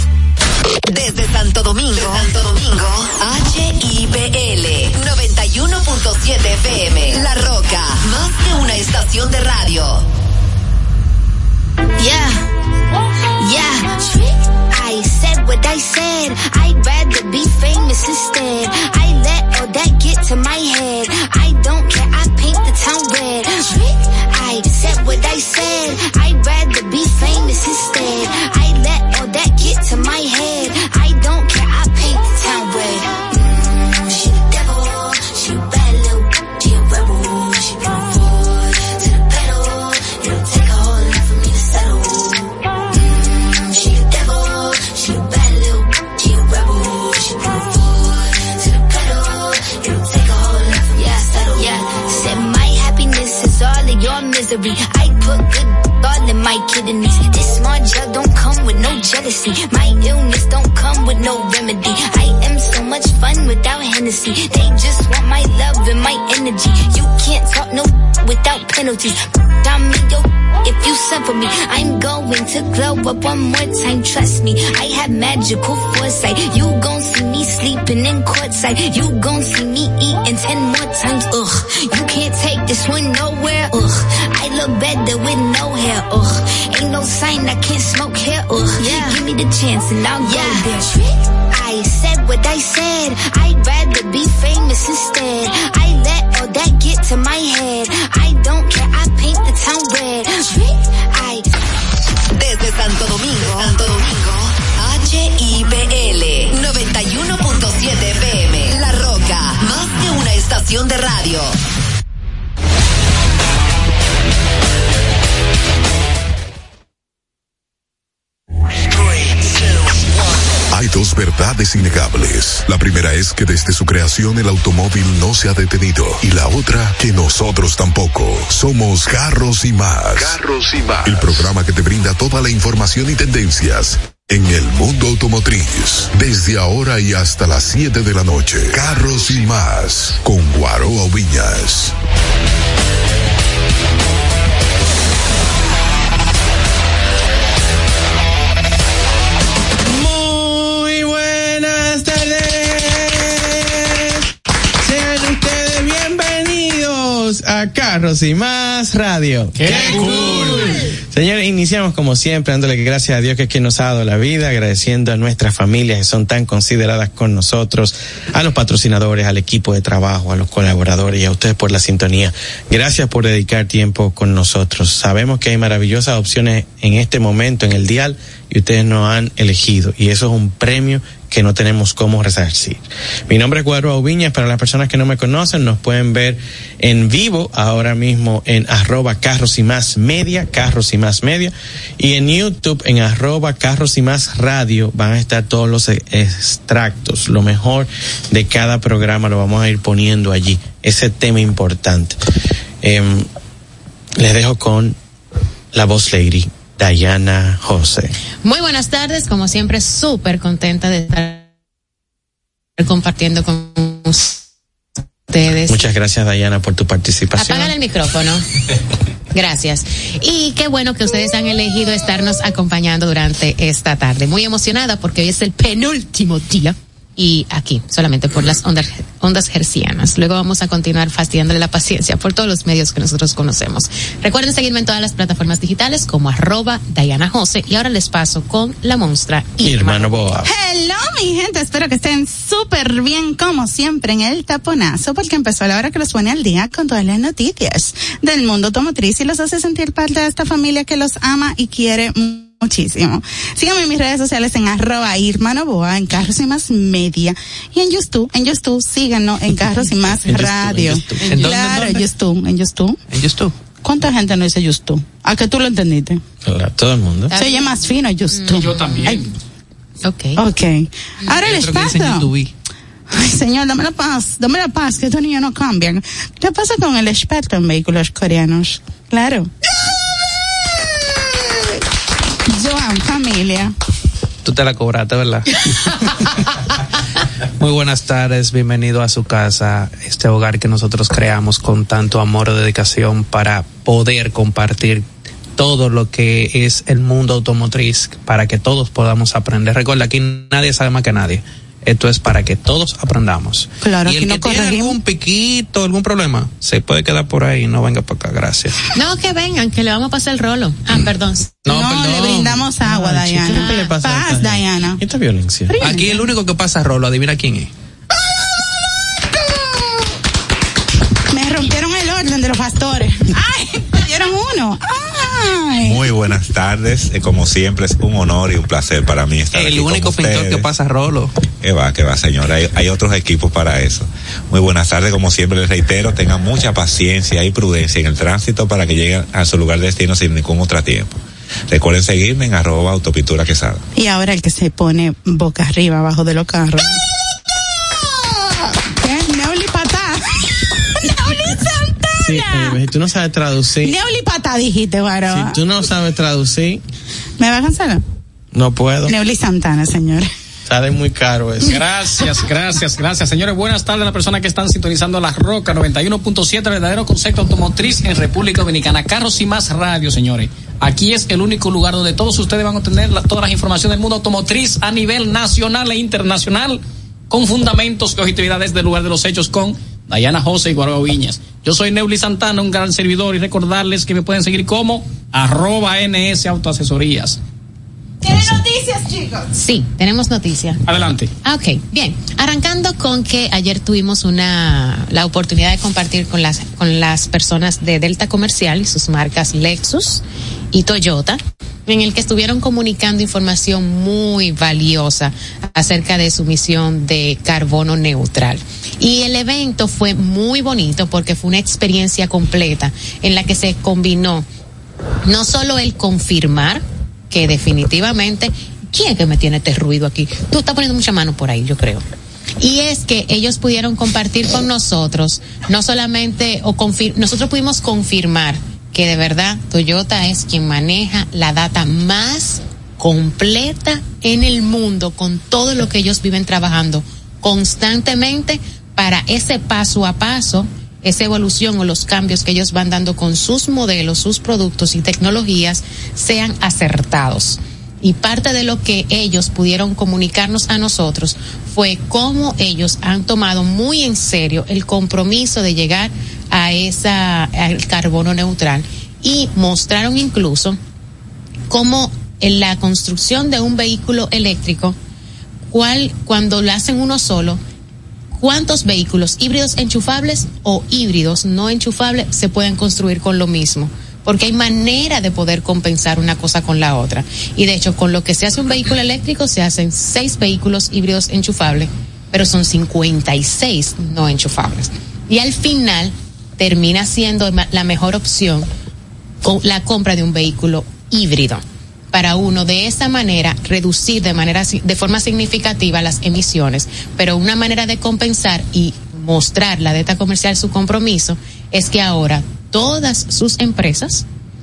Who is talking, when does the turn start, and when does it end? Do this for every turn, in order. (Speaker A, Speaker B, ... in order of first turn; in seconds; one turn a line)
Speaker A: 0.9-10.0
Speaker B: 12.0-12.4
Speaker B: 13.4-101.5
Speaker A: 102.3-111.6
Speaker C: 120.7-141.9
Speaker D: 149.9-154.2
Speaker D: 154.8-202.2
Speaker E: 159.6-160.7
Speaker D: 202.8-203.3
Speaker D: 204.2-205.0
Speaker D: 205.7-208.1
Speaker F: 208.4-211.5
Speaker F: 212.8-214.4
Speaker F: 215.3-215.8
Speaker D: 215.7-217.8
Speaker F: 217.3-218.4
Speaker F: 219.3-240.4
Speaker D: 239.6-240.5
Speaker G: 240.4-263.0
Speaker H: 260.0-262.1
Speaker H: 263.1-263.6
Speaker G: 263.8-266.2
Speaker D: 266.4-267.3
Speaker F: 267.3-267.8
Speaker G: 267.3-269.2
Speaker F: 268.3-269.2
Speaker E: 268.5-269.3
Speaker F: 270.0-270.4
Speaker G: 270.4-272.3
Speaker H: 271.4-272.5
Speaker G: 273.1-279.5
Speaker G: 282.5-283.8
Speaker H: 284.4-286.0
Speaker H: 287.6-295.1
Speaker H: 295.6-308.8
Speaker G: 303.8-305.0
Speaker F: 308.9-311.5
Speaker H: 311.6-312.7
Speaker G: 311.7-315.0
Speaker D: 312.9-315.8
Speaker G: 315.7-316.3
Speaker H: 315.8-317.7
Speaker G: 321.3-326.1
Speaker I: 325.8-330.7
Speaker H: 329.5-331.3
Speaker I: 331.6-343.8
Speaker G: 344.0-347.0
Speaker G: 348.0-352.8
Speaker D: 352.2-354.0
Speaker G: 353.8-355.6
Speaker D: 355.3-356.8
Speaker G: 357.4-358.0
Speaker D: 358.5-359.2
Speaker G: 359.1-360.3
Speaker D: 360.7-361.8
Speaker E: 361.7-387.4
Speaker G: 388.2-389.5
Speaker F: 389.5-390.8
Speaker E: 390.9-391.3
Speaker F: 391.4-414.5
Speaker F: 415.2-422.0
Speaker F: 422.6-460.8
Speaker F: 461.7-465.0
Speaker F: 465.7-467.6
Speaker F: 468.4-488.7
Speaker F: 489.4-504.3